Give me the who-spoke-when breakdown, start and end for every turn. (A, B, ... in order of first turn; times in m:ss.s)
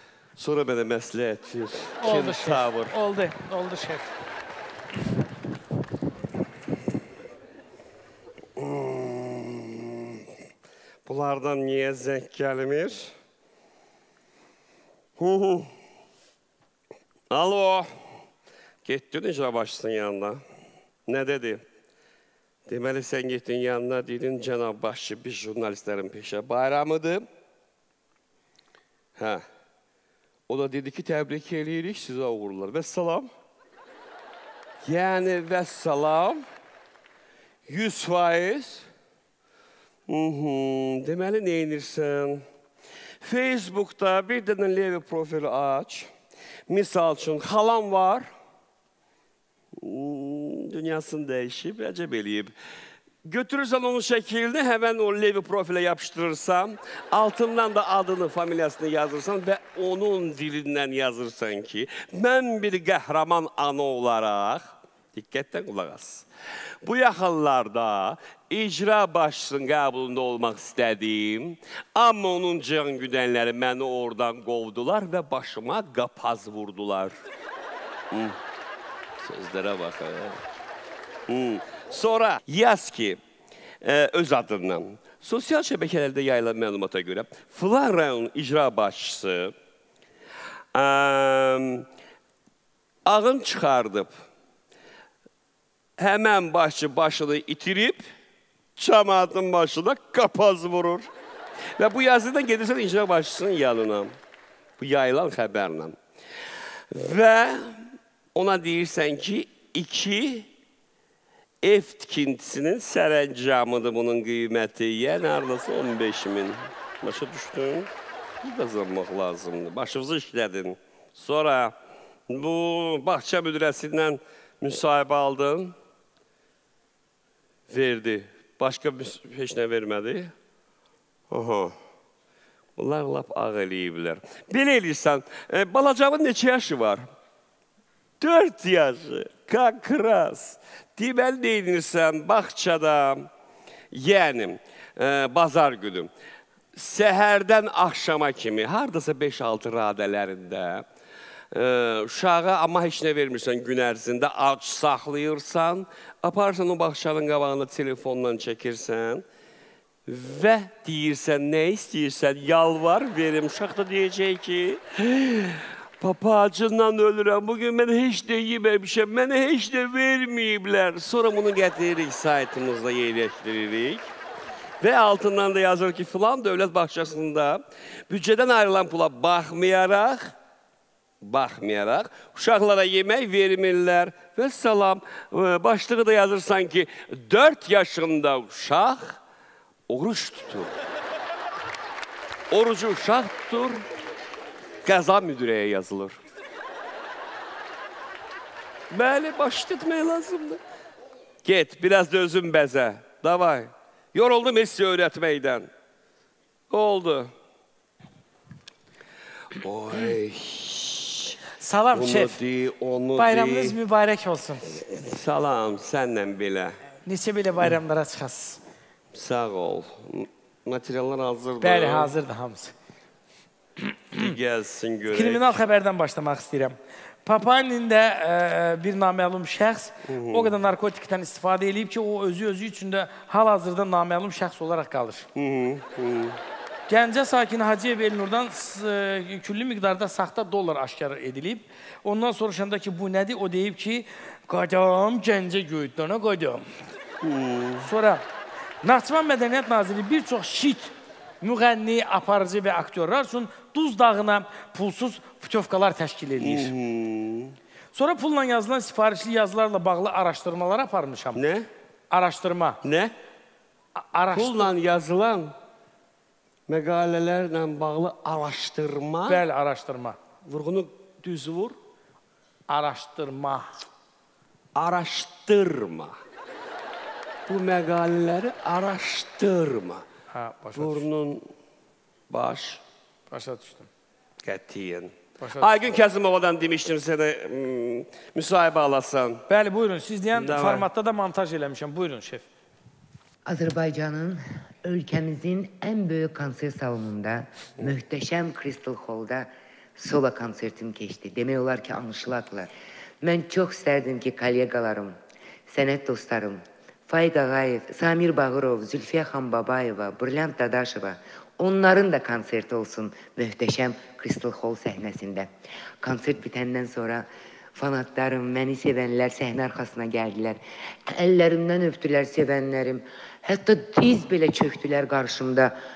0:00.4-0:02.9 A
0:02.0-0:04.1 B
0:08.6-0:10.2 A
0:11.0-0:13.1 A
0:15.2-0:15.7 A
0:17.3-0:17.9 A
0:18.8-0:20.4 A
0:21.1-0:21.6 A
0:22.7-0:27.2 A
0:29.2-0:29.4 A
0:30.5-0:33.3 A
0:34.8-0:36.4 A
0:37.7-0:38.9 A
0:40.1-0:42.4 A
0:43.2-0:46.1 A
0:46.7-0:48.3 A
0:49.8-0:52.5 A
0:53.2-1:06.2 A
1:06.8-1:17.1 A
1:18.1-1:18.4 A
1:19.2-1:20.4 A
1:21.3-1:23.2 A
1:23.8-1:29.5 A
1:30.7-1:31.8 A
1:33.0-1:34.1 A
1:36.0-1:38.0 A
1:38.8-1:41.1 A
1:41.8-1:44.2 A
1:44.8-1:46.0 A
1:46.9-1:50.5 A
1:51.6-1:57.9 A
1:58.4-2:01.7 A
2:02.3-2:05.7 A
2:07.7-2:10.3 A
2:11.3-2:11.7 A
2:12.8-2:17.0 A
2:18.2-2:23.3 A
2:23.9-2:26.1 A
2:26.7-2:30.8 A
2:31.5-2:39.2 A
2:40.1-2:54.1 A
2:54.8-3:00.3 A
3:01.2-3:09.2 A
3:09.9-3:10.7 A
3:12.5-3:13.8 A
3:14.8-3:16.2 A
3:18.9-3:20.6 A
3:21.4-3:25.7 A
3:26.7-3:27.3 A
3:29.6-3:31.4 A
3:31.6-3:32.4 B
3:31.9-3:33.8 A
3:33.2-3:34.7 B
3:34.7-3:36.8 A
3:37.0-3:38.6 B
3:39.1-3:42.1 A
3:41.6-3:42.7 B
3:44.1-3:45.6 A
3:45.1-3:55.3 B
3:50.1-3:50.5 A
3:55.3-3:56.4 A
3:56.9-4:06.6 B
4:07.2-4:07.9 A
4:07.8-4:08.2 B
4:08.8-4:16.7 B
4:16.4-4:17.6 A
4:17.9-4:21.4 B
4:21.3-4:21.7 A
4:22.1-4:22.8 B
4:22.8-4:23.1 A
4:24.0-4:24.7 B
4:24.3-4:25.5 A
4:26.7-4:29.4 A
4:29.3-4:30.2 B
4:30.4-4:31.7 A
4:32.7-4:33.7 B
4:34.7-4:36.2 A
4:37.5-4:40.0 A
4:40.3-4:41.0 B
4:40.7-4:41.5 A
4:42.3-4:42.8 A
4:43.3-4:43.9 B
4:44.4-4:49.4 A
4:45.4-4:45.7 B
4:49.5-4:52.4 B
4:50.3-4:50.9 A
4:53.4-5:02.7 C
5:03.2-5:25.8 C